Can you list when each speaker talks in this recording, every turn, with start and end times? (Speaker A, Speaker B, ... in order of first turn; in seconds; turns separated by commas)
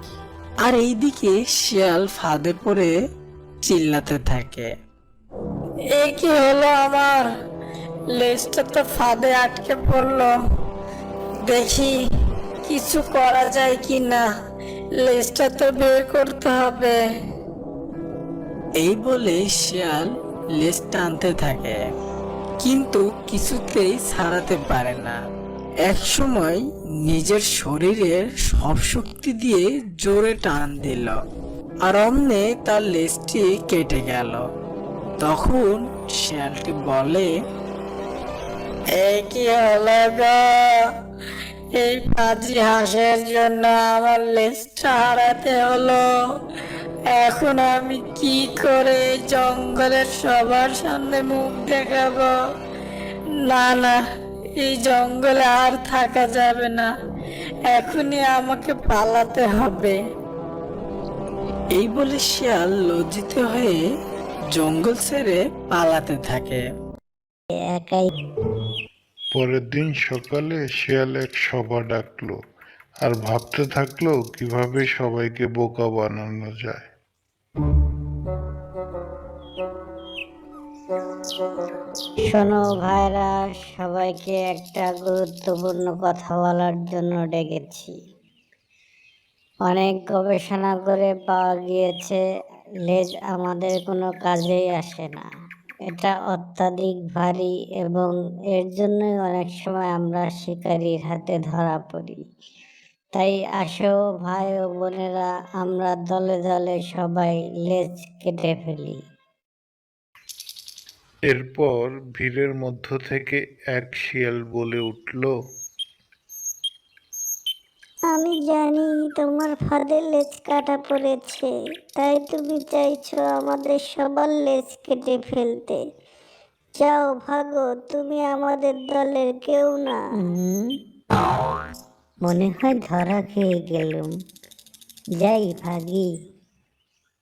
Speaker A: 0.6-2.9, Speaker A: 3.6-4.7, Speaker B: 6.0-7.2, Speaker B: 8.2-10.3, Speaker B: 11.5-11.9, Speaker B: 12.7-14.2, Speaker B: 15.0-17.0, Speaker A: 18.8-21.8, Speaker A: 22.6-25.2, Speaker A: 25.8-31.2, Speaker A: 31.9-34.4, Speaker A: 35.2-37.3, Speaker B: 39.0-40.7, Speaker B: 41.8-46.1, Speaker B: 47.1-52.3, Speaker A: 47.3-52.1, Speaker B: 53.5-53.9, Speaker B: 54.7-56.9, Speaker A: 55.0-55.8, Speaker B: 57.7-59.9, Speaker A: 57.9-59.9, Speaker A: 61.7-63.8, Speaker A: 64.5-66.6, Speaker C: 67.5-68.1, Speaker D: 69.3-72.4, Speaker D: 73.0-76.9, Speaker C: 82.3-87.9, Speaker C: 89.7-92.2, Speaker C: 92.9-95.3, Speaker C: 95.9-102.2, Speaker C: 103.2-109.0, Speaker D: 111.2-115.3, Speaker C: 118.1-125.8, Speaker C: 126.8-130.7, Speaker C: 132.2-134.1, Speaker C: 135.2-136.1